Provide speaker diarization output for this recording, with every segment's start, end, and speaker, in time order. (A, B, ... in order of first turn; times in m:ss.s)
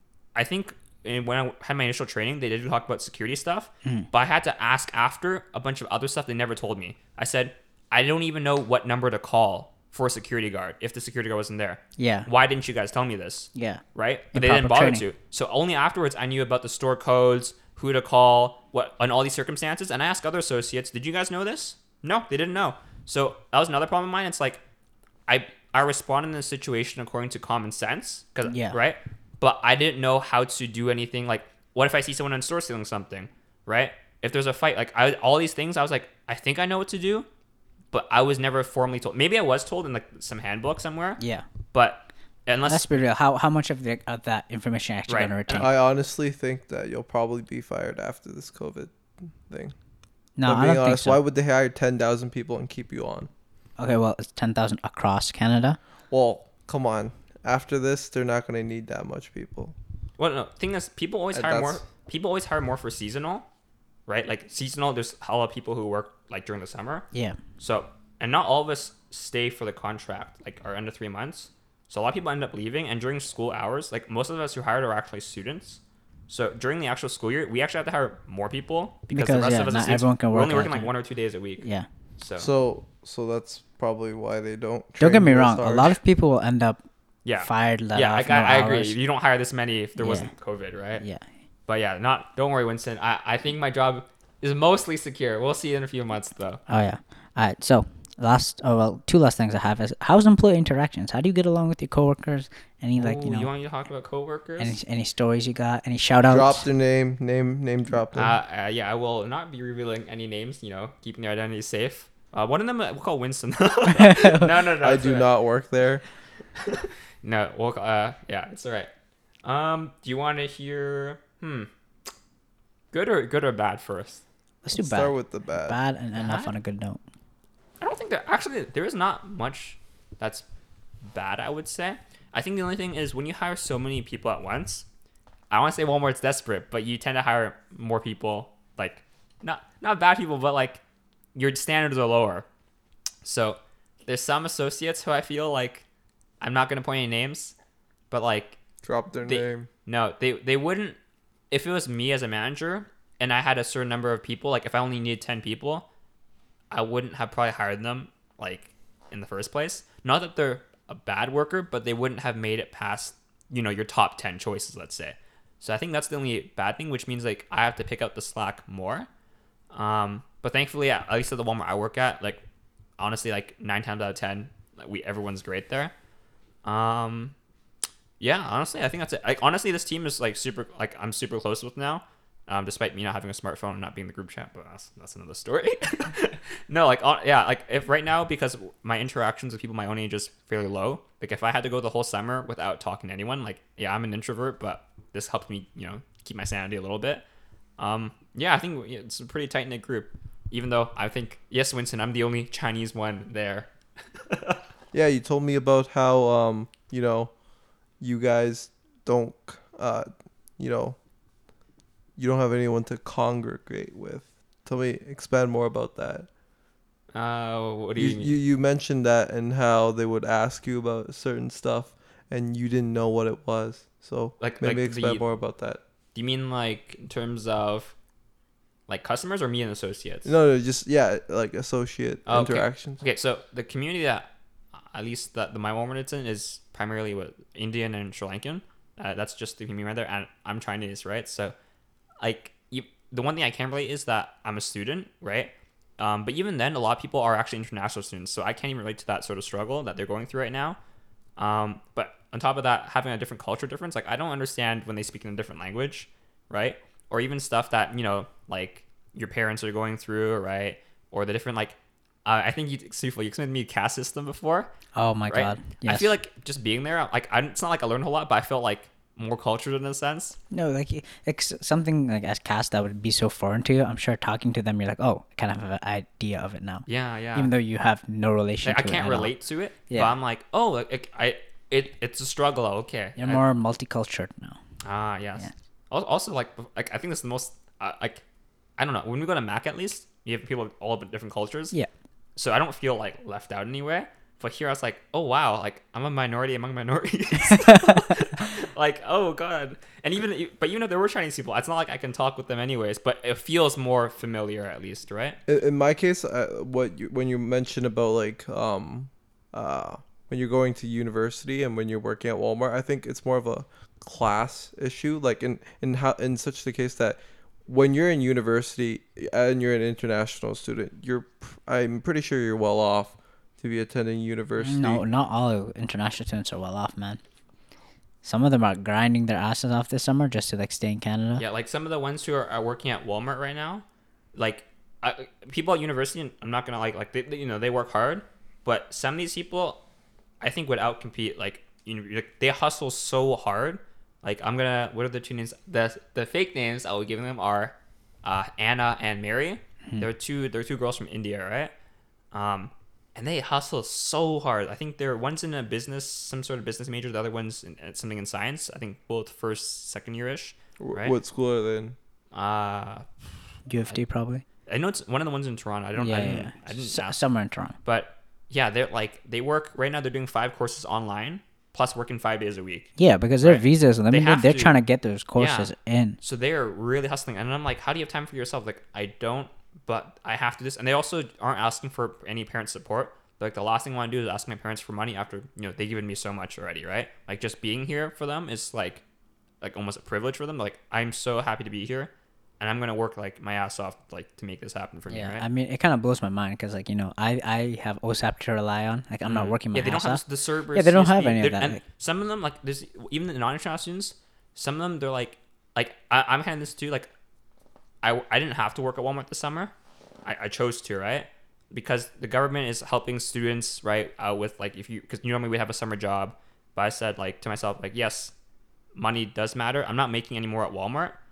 0:00.4-0:24.6 A
0:12.0-0:12.3 B
0:13.5-0:15.0 B
0:25.3-0:37.3 A
0:28.5-0:28.8 B
0:37.9-0:41.2 A
0:41.2-0:41.4 B
0:41.7-0:42.9 A
0:42.7-0:45.8 B
0:45.1-0:45.7 A
0:45.6-0:48.9 C
0:49.5-0:49.7 C
0:50.4-0:51.2 B
0:50.4-0:53.3 C
0:53.8-0:55.8 B
0:56.1-0:59.7 C
1:00.2-1:03.5 A
1:01.3-1:01.8 C
1:04.1-1:07.1 A
1:07.1-1:07.4 B
1:07.6-1:21.7 A
1:19.1-1:20.9 B
1:21.6-1:21.9 B
1:22.2-1:22.5 A
1:22.4-1:26.0 C
1:25.0-1:26.8 B
1:27.2-1:31.0 A
1:27.4-1:29.0 B
1:30.0-1:30.3 B
1:31.0-1:31.3 B
1:31.7-1:36.6 A
1:36.7-1:43.5 B
1:43.0-1:44.8 A
1:44.6-1:46.6 B
1:46.3-1:48.4 C
1:48.1-1:55.3 A
1:53.9-1:54.5 B
1:54.8-1:56.0 C
1:56.6-1:58.9 A
1:59.4-2:01.7 A
2:02.9-2:04.2 A
2:04.6-2:07.0 B
2:04.8-2:05.8 C
2:06.2-2:06.5 A
2:07.8-2:10.4 A
2:11.1-2:14.9 A
2:15.5-2:20.8 A
2:21.4-2:22.5 A
2:23.2-2:25.8 A
2:26.4-2:27.5 A
2:28.1-2:28.6 A
2:28.8-2:29.7 C
2:29.3-2:31.0 A
2:31.5-2:35.9 A
2:36.7-2:49.1 A
2:49.7-2:52.4 A
2:53.0-2:55.9 A
2:56.6-2:57.3 A
2:58.2-3:17.2 A
3:17.8-3:24.6 A
3:24.9-3:27.3 C
3:28.0-3:30.1 C
3:30.6-3:31.0 C
3:32.2-3:36.3 C
3:37.1-3:38.4 A
3:38.0-3:45.8 C
3:44.4-3:45.2 A
3:46.2-3:48.0 A
3:48.9-3:50.4 A
3:50.2-3:53.0 C
3:52.3-3:54.3 A
3:54.9-4:01.5 A
4:02.2-4:10.8 A
4:11.4-4:24.7 A
4:25.0-4:26.1 B
4:25.3-4:30.4 A
4:30.5-4:39.4 B
4:36.9-4:37.5 A
4:38.6-4:43.4 A
4:39.9-4:40.2 B
4:43.2-4:44.6 B
4:44.8-4:48.2 A
4:48.8-4:51.8 A
4:52.4-5:05.4 A
4:57.5-4:58.0 B
5:05.5-5:25.0 C
5:24.6-5:27.2 B
5:28.2-5:31.4 B
5:31.4-5:39.8 A
5:40.4-5:51.7 A
5:52.3-6:01.2 A
6:00.8-6:02.0 C
6:02.3-6:03.1 A
6:03.7-6:04.4 B
6:04.7-6:07.2 A
6:06.0-6:07.8 B
6:07.8-6:14.8 A
6:13.0-6:16.2 B
6:15.4-6:29.0 A
6:29.6-6:35.5 A
6:35.1-6:41.8 B
6:39.3-6:47.1 A
6:48.0-6:49.7 A
6:50.2-6:58.3 A
6:59.0-7:01.2 A